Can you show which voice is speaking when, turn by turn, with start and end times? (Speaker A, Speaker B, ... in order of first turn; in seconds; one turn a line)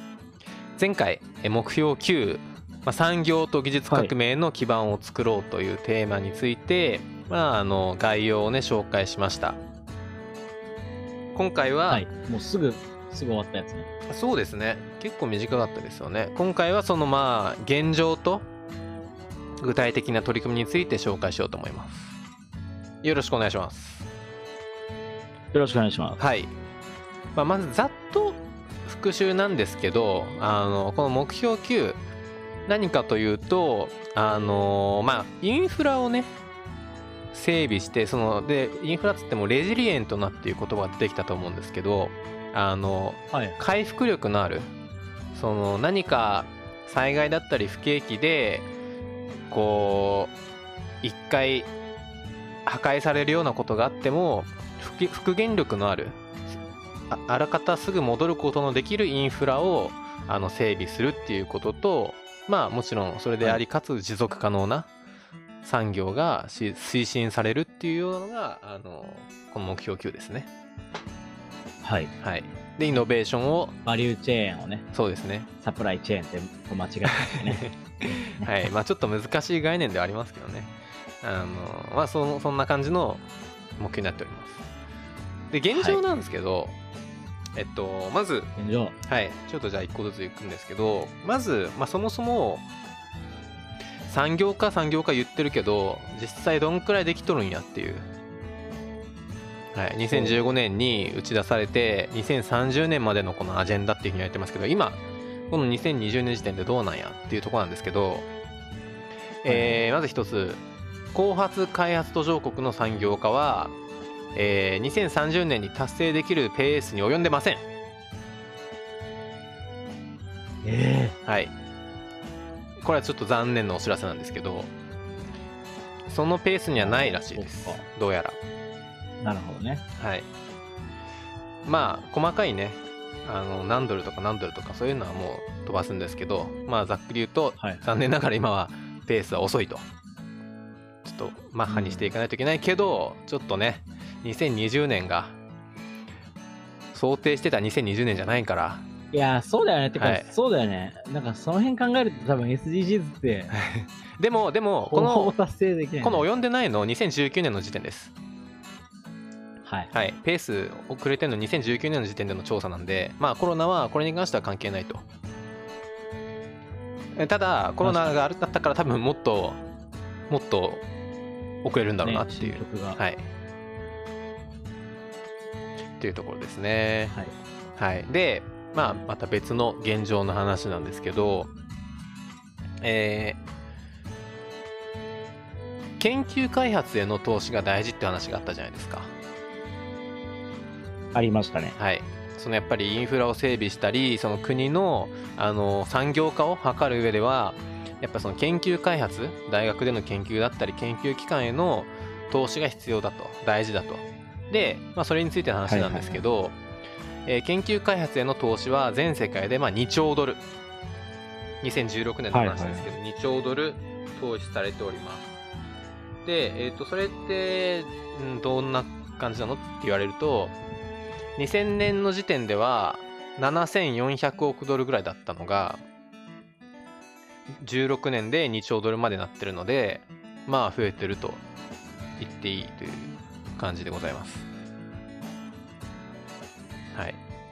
Speaker A: 0.8-9.6
Speaker A: 11.3-12.1
Speaker B: 11.9-13.9
Speaker A: 14.1-18.5
Speaker A: 19.6-22.2
Speaker A: 23.0-24.1
Speaker B: 25.5-26.2
Speaker A: 26.2-26.5
Speaker A: 27.4-32.0
Speaker A: 32.7-36.3
Speaker A: 37.3-44.7
Speaker B: 43.3-43.6
Speaker A: 45.3-48.7
Speaker A: 49.5-50.3
Speaker A: 51.0-51.7
Speaker A: 52.6-56.5
Speaker A: 57.1-64.9
Speaker A: 65.6-70.5
Speaker B: 71.8-72.1
Speaker A: 72.2-73.8
Speaker B: 73.8-74.9
Speaker A: 74.9-75.5
Speaker B: 75.6-78.5
Speaker A: 77.1-83.2
Speaker A: 83.8-84.7
Speaker A: 85.5-86.8
Speaker B: 85.7-86.0
Speaker A: 87.5-88.5
Speaker B: 88.6-89.0
Speaker A: 89.0-92.6
Speaker A: 94.1-98.1
Speaker A: 99.7-108.3
Speaker B: 100.1-100.4
Speaker A: 109.4-110.6
Speaker B: 109.5-109.8
Speaker A: 111.1-113.7
Speaker A: 114.3-117.6
Speaker B: 120.6-121.2
Speaker A: 121.2-121.5
Speaker A: 122.8-124.7
Speaker A: 126.1-128.4
Speaker B: 126.8-127.8
Speaker B: 129.2-129.8
Speaker A: 130.0-130.3
Speaker A: 131.6-139.9
Speaker A: 141.0-145.4
Speaker B: 141.7-142.1
Speaker A: 146.9-148.9
Speaker B: 149.1-153.5
Speaker A: 149.9-150.3
Speaker A: 153.5-155.3
Speaker B: 154.8-156.2
Speaker A: 156.0-158.1
Speaker B: 159.6-159.9
Speaker A: 159.9-165.1
Speaker A: 167.1-169.6
Speaker B: 167.8-168.1
Speaker A: 170.3-170.8
Speaker A: 171.6-173.3
Speaker B: 172.0-173.0
Speaker A: 176.0-177.2
Speaker A: 177.8-181.5
Speaker A: 182.8-183.4
Speaker A: 186.0-189.1
Speaker B: 191.1-191.8
Speaker A: 191.8-206.6
Speaker B: 205.7-206.2
Speaker A: 207.2-210.4
Speaker A: 211.6-215.4
Speaker B: 212.3-212.9
Speaker A: 216.2-220.6
Speaker A: 221.4-225.8
Speaker A: 227.6-231.4
Speaker A: 232.2-234.5